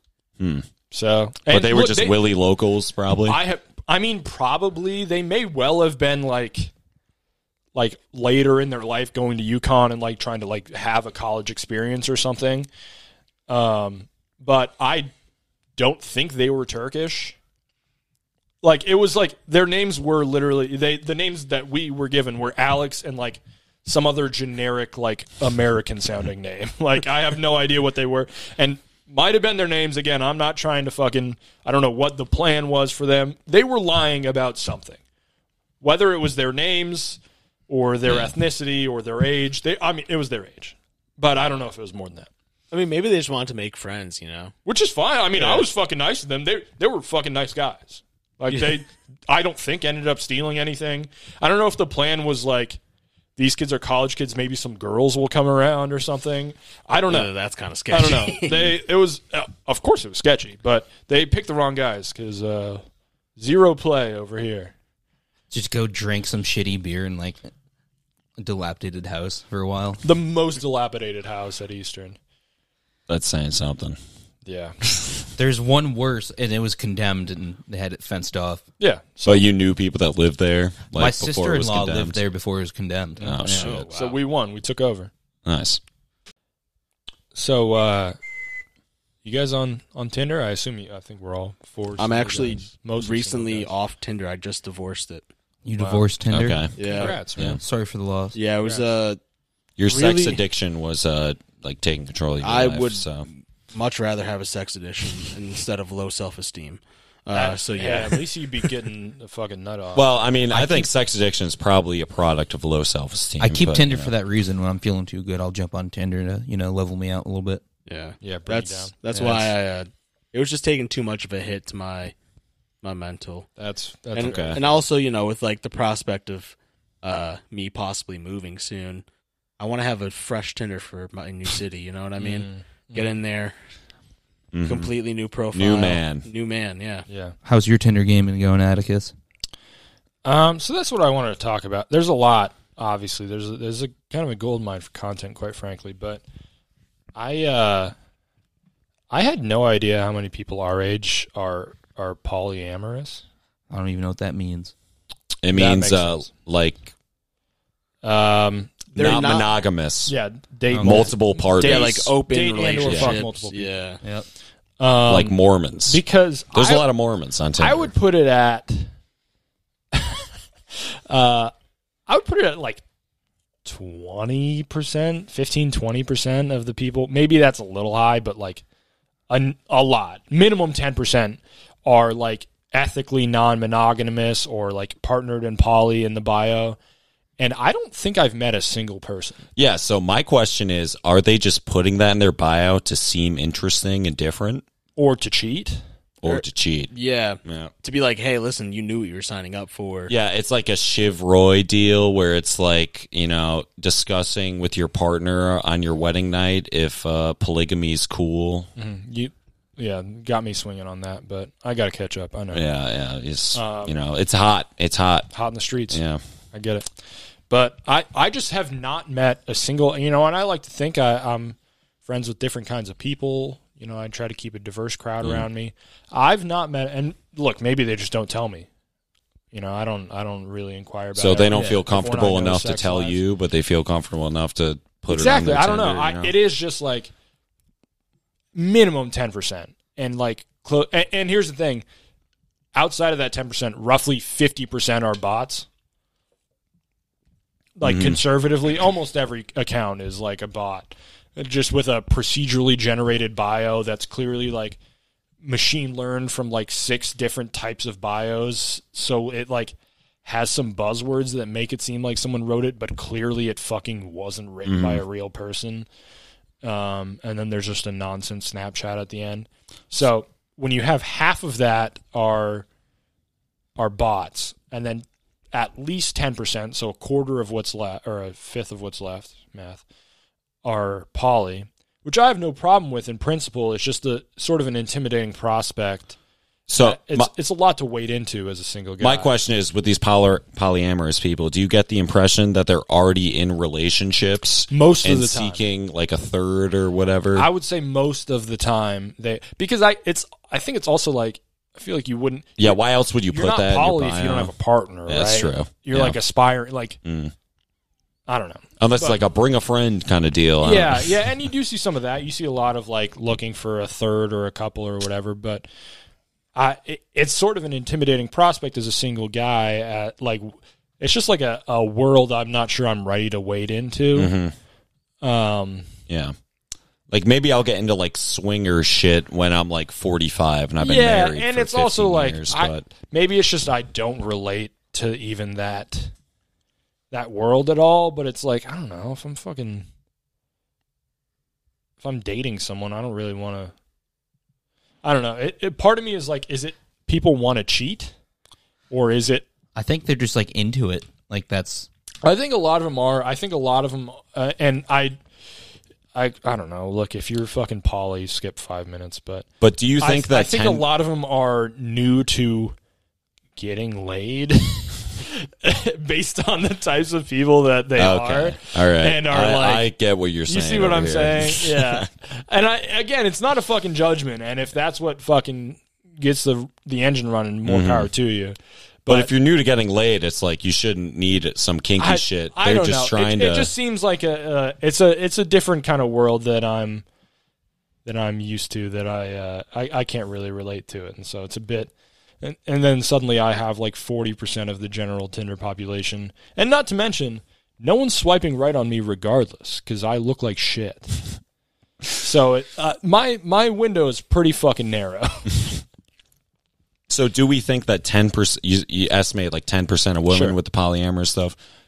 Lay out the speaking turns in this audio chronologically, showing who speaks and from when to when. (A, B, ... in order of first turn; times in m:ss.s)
0:00.4-0:00.7 A
0:00.9-0:02.2 B
0:01.5-0:03.4 A
0:03.3-0:06.7 B
0:07.7-0:12.7 B
0:13.5-0:15.1 B
0:15.8-0:17.4 B
0:18.6-0:35.0 B
0:35.8-0:42.3 B
0:42.7-0:44.5 C
0:44.6-0:52.8 B
0:45.3-0:45.6 C
0:53.4-0:57.3 B
0:57.1-0:58.8 C
0:57.9-1:02.8 B
1:03.4-1:04.7 B
1:05.5-1:07.4 D
1:08.4-1:10.0 D
1:10.0-1:12.2 B
1:13.1-1:14.0 A
1:14.4-1:14.8 B
1:15.4-1:18.6 D
1:18.8-1:19.5 B
1:19.2-1:22.2 A
1:20.9-1:23.4 D
1:23.2-1:25.1 B
1:23.2-1:23.8 A
1:23.4-1:24.2 C
1:25.4-1:25.8 A
1:27.3-1:28.2 B
1:29.2-1:33.7 B
1:32.0-1:35.2 C
1:35.6-1:38.4 D
1:35.8-1:36.1 B
1:36.3-1:36.7 A
1:36.8-1:37.2 C
1:36.8-1:37.6 B
1:37.4-1:37.6 A
1:38.3-1:39.2 C
1:38.6-1:38.9 B
1:39.8-1:43.2 A
1:39.8-1:40.4 C
1:42.4-1:48.7 C
1:47.3-1:50.8 B
1:49.9-1:54.1 A
1:50.5-1:50.9 D
1:53.4-1:57.6 D
1:57.9-2:02.1 C
1:58.2-1:59.5 B
2:02.8-2:03.5 C
2:03.6-2:04.8 B
2:04.1-2:09.0 C
2:04.2-2:04.6 A
2:09.6-2:13.6 C
2:12.2-2:13.1 B
2:14.5-2:14.9 A
2:14.6-2:17.0 C
2:15.5-2:16.3 A
2:17.1-2:17.4 B
2:17.4-2:19.1 D
2:20.2-2:26.2 B
2:27.1-2:27.9 B
2:29.1-2:33.2 B
2:33.7-2:34.7 D
2:35.4-2:36.9 A
2:35.5-2:36.3 B
2:38.0-2:38.9 B
2:38.9-2:39.5 C
2:39.0-2:40.1 A
2:40.1-2:43.7 B
2:40.7-2:41.1 D
2:40.8-2:42.1 A
2:41.6-2:44.0 C
2:42.8-2:43.2 A
2:44.8-2:46.9 B
2:45.1-2:46.0 A
2:46.5-2:47.9 A
2:47.6-2:48.9 B
2:49.9-2:50.2 B
2:51.1-2:51.5 B
2:52.1-2:52.8 B
2:53.6-2:58.6 B
2:59.3-3:06.8 B
3:07.4-3:09.5 B
3:09.6-3:14.6 A
3:15.0-3:15.8 B
3:16.2-3:16.9 A
3:16.2-3:20.1 C
3:17.4-3:17.7 A
3:20.1-3:28.7 A
3:28.8-3:32.6 B
3:32.5-3:35.3 A
3:33.5-3:33.9 B
3:35.3-3:36.0 B
3:35.9-3:36.2 A
3:36.5-3:36.9 B
3:37.5-3:48.7 B
3:49.5-3:53.2 B
3:51.2-3:56.3 A
3:51.5-3:51.8 D
3:55.1-3:57.1 B
3:58.6-4:01.9 B
4:02.7-4:05.7 B
4:07.8-4:14.8 B
4:07.8-4:08.2 A
4:15.4-4:25.9 B
4:24.6-4:25.0 A
4:26.6-4:32.7 B
4:33.8-4:39.8 B
4:40.6-4:46.2 B
4:46.7-4:47.3 A
4:46.8-4:49.3 B
4:49.0-4:57.5 A
4:54.7-4:55.6 B
4:57.3-5:07.0 B
5:02.6-5:04.5 A
5:05.1-5:06.2 A
5:07.0-5:07.3 A
5:08.3-5:09.2 B
5:08.8-5:11.1 A
5:10.6-5:15.7 B
5:16.6-5:24.3 B
5:24.1-5:24.5 A
5:25.2-5:25.9 B
5:27.1-5:32.9 A
5:30.8-5:36.1 B
5:37.1-5:39.9 B
5:42.0-5:43.7 B
5:45.0-5:48.1 B
5:48.9-5:49.5 B
5:49.7-5:51.9 D
5:52.2-5:55.2 B
5:56.1-5:59.5 B
5:59.6-6:00.8 A
6:00.0-6:02.8 B
6:03.6-6:09.9 B
6:08.0-6:12.1 A
6:10.5-6:19.3 B
6:17.6-6:18.1 A
6:19.1-6:23.7 A
6:22.0-6:27.0 B
6:28.0-6:41.2 B
6:42.1-6:45.6 B
6:47.1-6:51.6 A
6:50.3-6:50.6 B